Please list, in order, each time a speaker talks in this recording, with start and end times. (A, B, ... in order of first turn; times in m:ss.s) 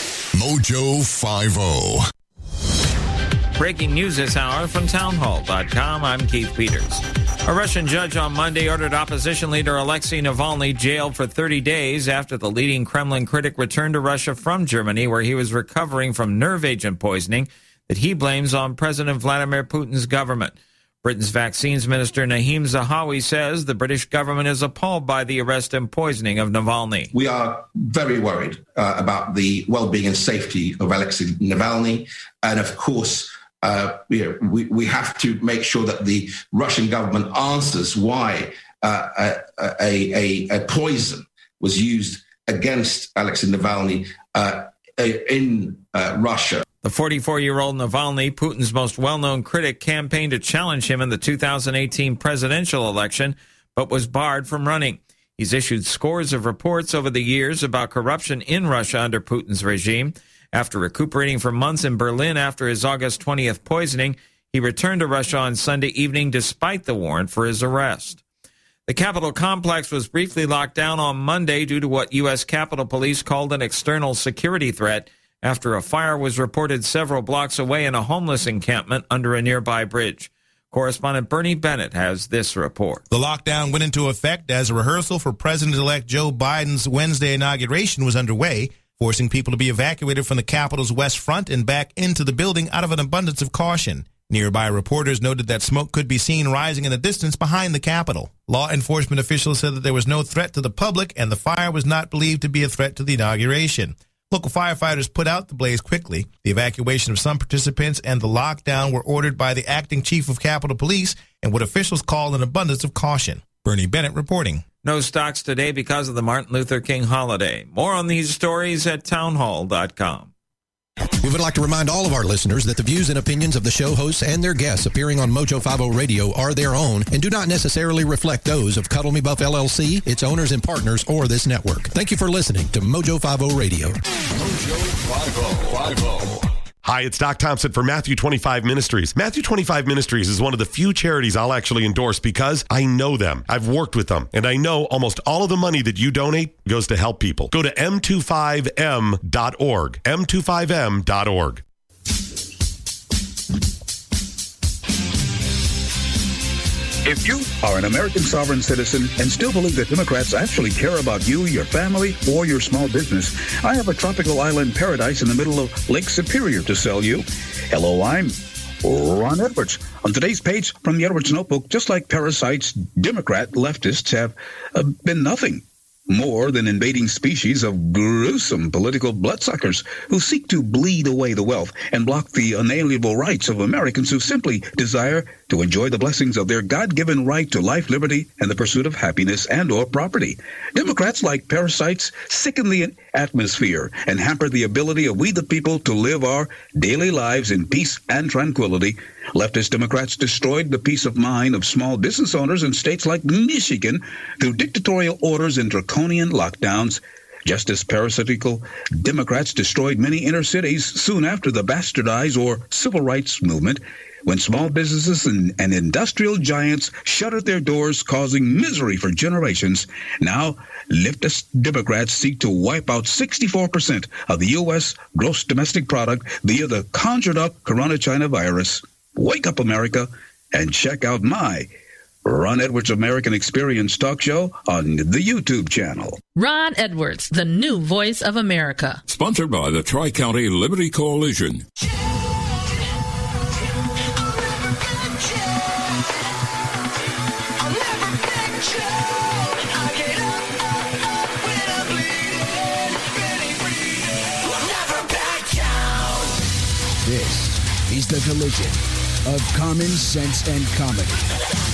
0:00.3-0:02.0 A
0:03.6-0:27.1 B
0:27.1-0:46.6 C
0:46.8-1:08.2 B
1:08.9-1:23.0 B
1:23.1-1:54.6 D
1:54.8-2:00.3 B
2:01.2-2:14.0 E
2:14.4-2:16.4 A
2:16.8-2:31.6 F
2:37.0-3:51.7 G
3:52.2-3:56.2 G
3:56.3-3:59.0 H
3:59.1-4:01.6 I
4:04.2-4:06.1 H
4:07.6-4:16.4 H
4:17.0-4:21.3 J